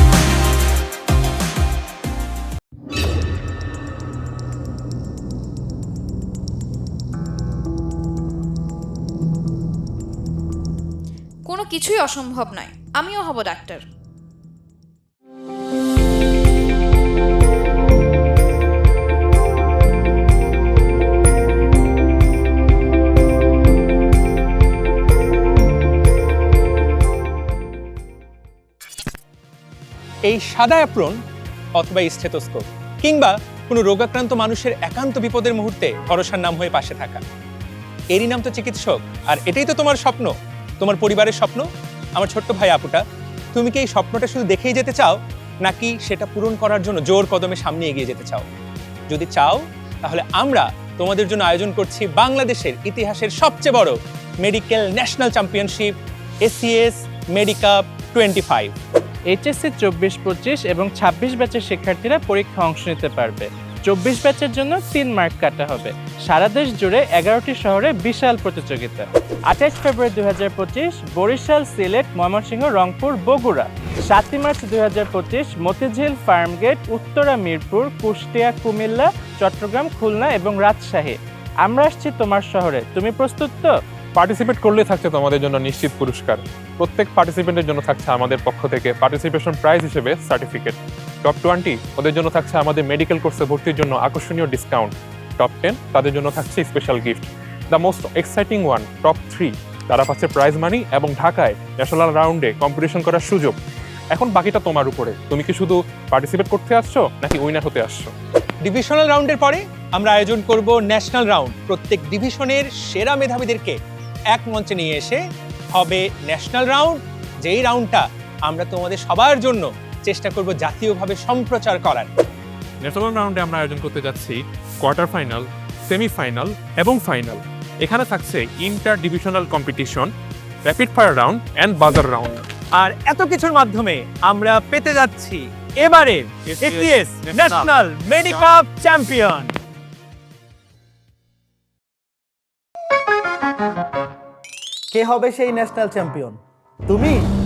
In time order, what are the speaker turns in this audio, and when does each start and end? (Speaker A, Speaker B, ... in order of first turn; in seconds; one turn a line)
Speaker A: 11.5-13.8
Speaker B: 30.3-31.2
Speaker B: 31.8-37.2
Speaker B: 38.1-41.6
Speaker B: 42.2-43.0
Speaker B: 43.5-48.5
Speaker B: 49.1-55.9
Speaker B: 56.4-58.7
Speaker C: 59.3-83.8
Speaker D: 84.2-103.6
Speaker D: 104.1-108.1
Speaker B: 108.7-113.8
Speaker B: 114.3-115.2
Speaker B: 115.8-122.1
Speaker D: 122.8-130.1
Speaker D: 130.7-132.4
Speaker B: 132.8-139.5
Speaker E: 144.9-147.2